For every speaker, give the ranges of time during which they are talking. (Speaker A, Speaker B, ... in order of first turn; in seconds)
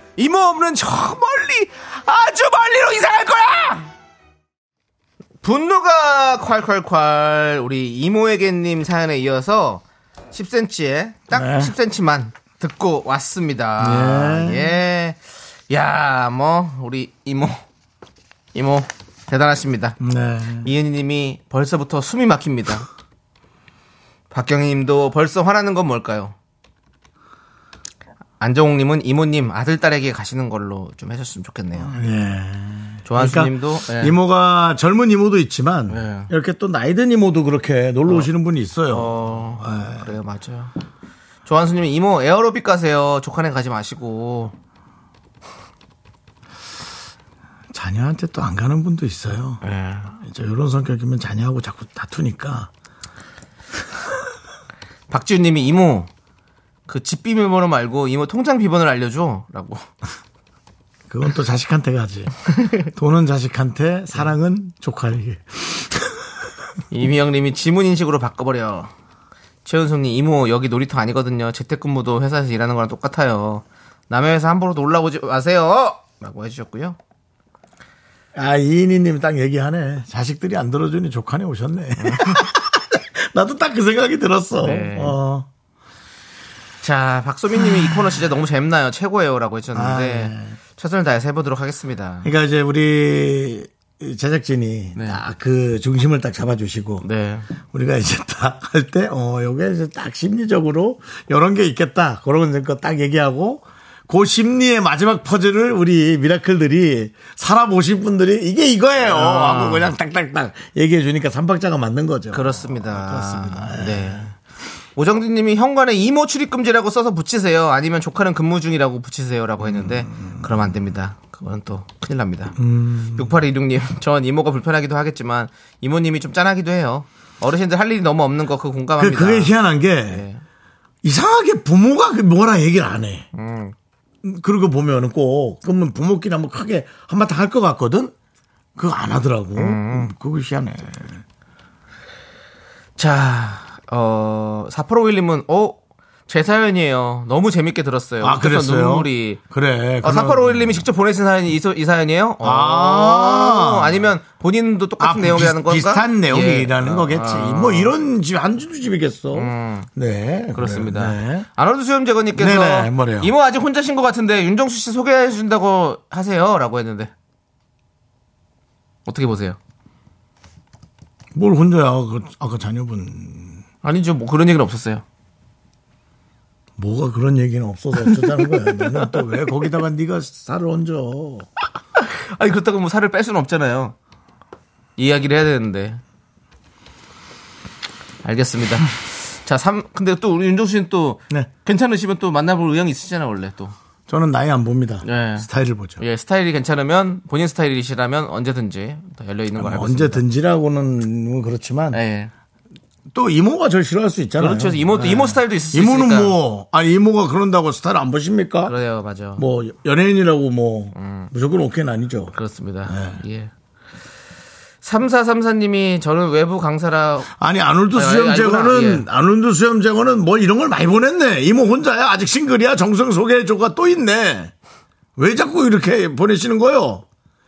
Speaker A: 0.2-3.9, 5.4-15.2, 15.7-17.6, 18.6-20.0, 20.6-22.9, 24.3-26.4, 28.4-31.9, 33.1-34.1, 35.9-36.3, 38.9-40.7, 41.5-44.5, 49.6-50.1, 55.1-56.1, 56.9-59.9, 66.9-68.9, 69.7-77.0, 82.0-82.4, 84.6-85.2, 86.8-92.3, 95.0-95.2, 97.0-97.5, 109.0-109.9, 112.3-114.3, 115.0-122.6, 123.1-129.5, 130.1-130.4, 133.3-133.8, 139.6-140.1, 143.0-149.4, 150.0-157.9, 159.3-159.9, 160.5-167.1, 169.1-169.6, 173.8-175.0, 178.1-179.2, 182.0-183.9, 185.0-186.0, 188.2-193.7, 195.0-195.5, 196.0-200.2, 201.9-202.3, 204.4-206.4, 208.7-209.4, 210.9-211.3, 212.3-213.5, 214.8-217.3, 217.9-219.1
Speaker B: 11.3-11.7, 13.8-14.8, 20.0-20.7, 31.8-40.1, 47.7-52.7, 61.1-66.2, 78.3-85.5, 89.7-90.6, 92.2-97.1, 97.7-114.3, 119.6-120.5, 122.6-123.4, 129.0-130.2, 131.0-133.3, 134.2-138.1, 138.8-141.2, 148.2-150.8, 152.4-154.1, 155.0-161.5, 162.3-163.3, 171.3-173.6, 176.8-181.5, 194.1-196.0, 199.6-202.0, 203.1-208.7, 209.4-212.3, 212.9-213.2, 217.4-224.5, 225.2-227.1